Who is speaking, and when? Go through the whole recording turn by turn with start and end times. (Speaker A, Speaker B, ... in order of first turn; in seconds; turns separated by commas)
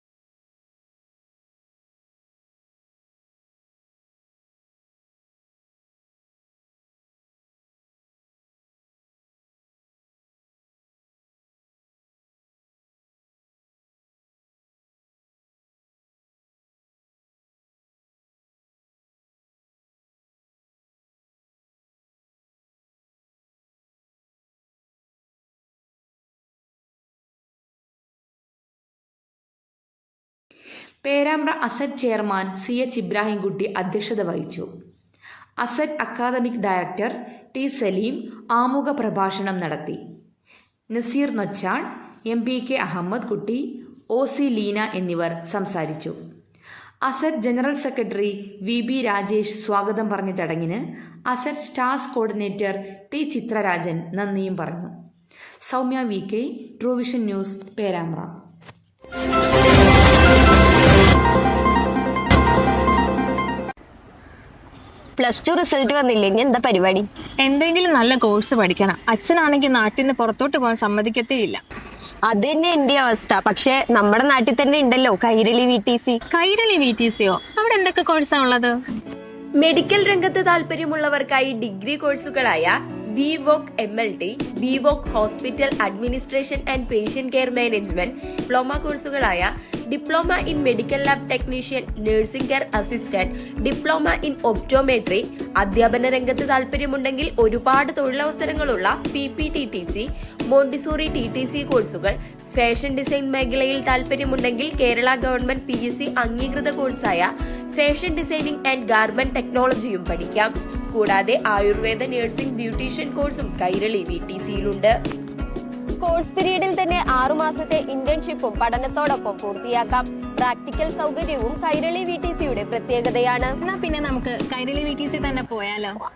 Speaker A: 31.0-34.7, Speaker A: 35.6-40.0, Speaker A: 40.9-46.2, Speaker A: 47.0-54.9, Speaker A: 55.6-58.4, Speaker B: 65.2-67.1, Speaker C: 67.4-71.6, Speaker B: 72.3-76.2, Speaker C: 76.3-78.8, Speaker D: 79.6-114.9, Speaker B: 116.0-123.5, Speaker C: 123.6-126.0